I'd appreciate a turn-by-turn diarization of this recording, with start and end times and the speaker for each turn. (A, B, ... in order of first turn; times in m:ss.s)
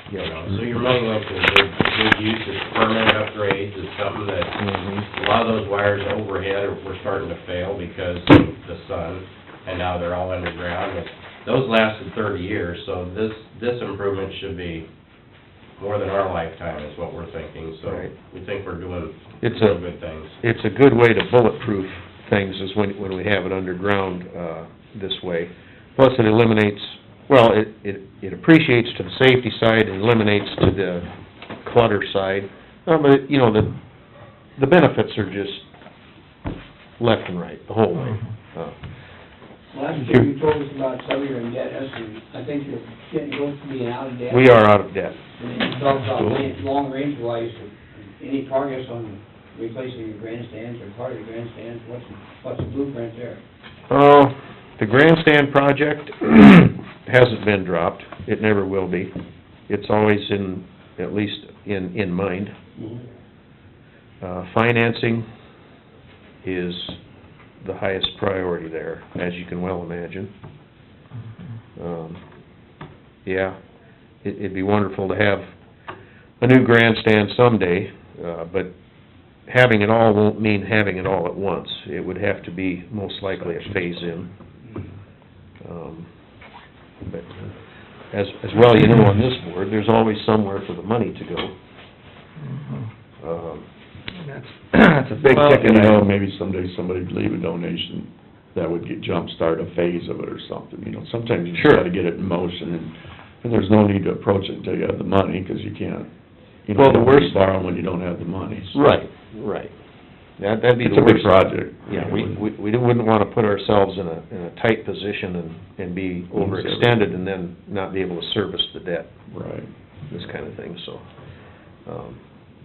0:00.1-0:00.4 A
0:00.2-0:14.9 B
0:04.6-0:05.1 A
0:15.8-0:20.3 B
0:17.8-0:18.1 A
0:19.4-0:19.8 A
0:20.4-0:31.1 A
0:31.6-0:33.7 A
0:34.6-0:35.7 A
0:37.0-0:38.8 A
0:39.7-0:44.6 C
0:44.3-0:45.2 A
0:45.4-0:53.4 C
0:46.0-0:46.6 D
0:53.9-0:59.1 A
0:59.7-1:02.5 A
1:02.8-1:03.0 C
1:04.2-1:05.3 A
1:06.4-1:07.0 A
1:07.6-1:10.3 A
1:11.8-1:12.2 A
1:13.2-1:13.6 A
1:14.2-1:15.4 A
1:16.4-1:18.7 A
1:19.5-1:24.3 A
1:23.5-1:23.9 D
1:25.6-1:26.1 A
1:27.1-1:27.5 A
1:28.1-1:31.5 A
1:32.5-1:32.9 E
1:33.2-1:33.6 A
1:34.2-1:35.8 E
1:35.2-1:35.9 A
1:35.3-1:46.1 D
1:41.6-1:41.8 A
1:46.7-1:48.8 D
1:46.7-1:47.4 A
1:48.7-1:49.7 A
1:50.4-1:51.4 A
1:50.8-1:52.4 D
1:51.9-1:59.1 A
1:56.4-1:57.1 D
1:59.3-1:59.7 D
2:00.1-2:01.0 A
2:01.9-2:02.2 A